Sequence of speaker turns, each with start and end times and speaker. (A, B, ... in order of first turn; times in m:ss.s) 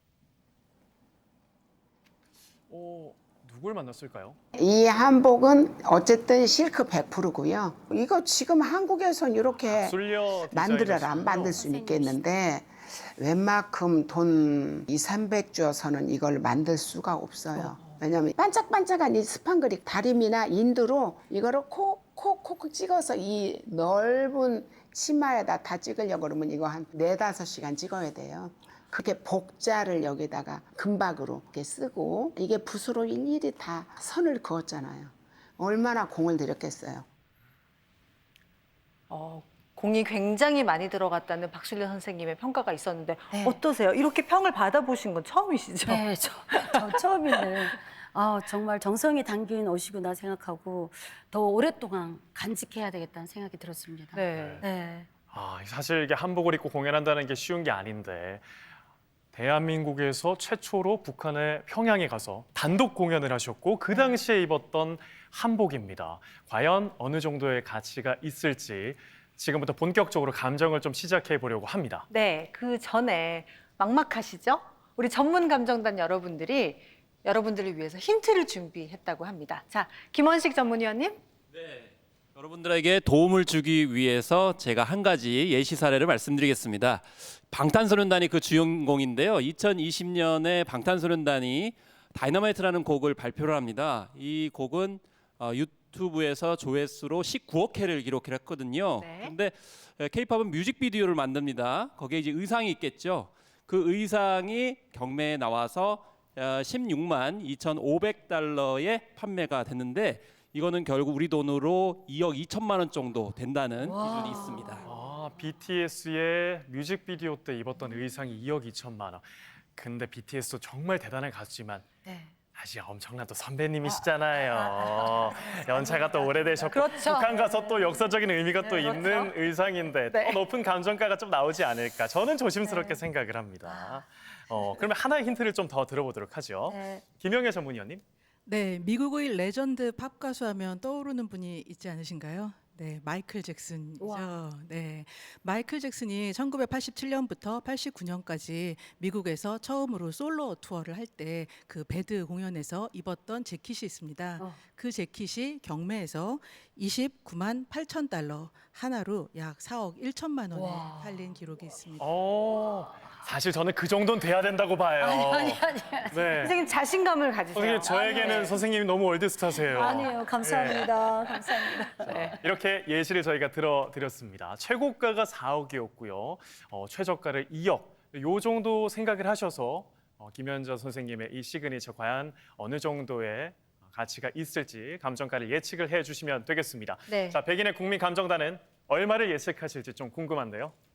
0:02.7-0:04.4 A
0:04.5-0:37.0 B
0:09.6-0:11.6 A
0:11.5-0:12.3 C
0:17.6-0:18.0 D
0:39.1-0:47.0 D
0:43.3-0:43.6 C
0:45.8-0:55.1 C
0:54.1-0:54.6 D
0:54.3-0:54.6 A
0:55.3-0:58.4 A
0:59.3-1:12.1 A
1:03.9-1:04.2 D
1:12.1-1:21.2 D
1:21.5-1:54.8 E
1:39.0-1:39.3 D
1:53.9-1:54.8 D
1:54.8-2:01.9 A
2:02.0-2:02.3 D
2:02.5-2:18.0 A
2:04.6-2:05.0 D
2:06.6-2:07.7 D
2:08.6-2:09.3 D
2:10.1-2:10.4 D
2:12.6-2:13.0 D
2:13.6-2:14.0 D
2:16.6-2:17.0 D
2:18.4-2:42.1 F
2:24.0-2:24.3 D
2:40.6-2:40.9 C
2:42.0-2:46.5 A
2:45.0-2:46.4 C
2:46.4-2:48.6 D
2:47.5-2:50.9 A
2:49.7-2:52.3 C
2:52.0-3:10.7 A
3:07.1-3:07.4 D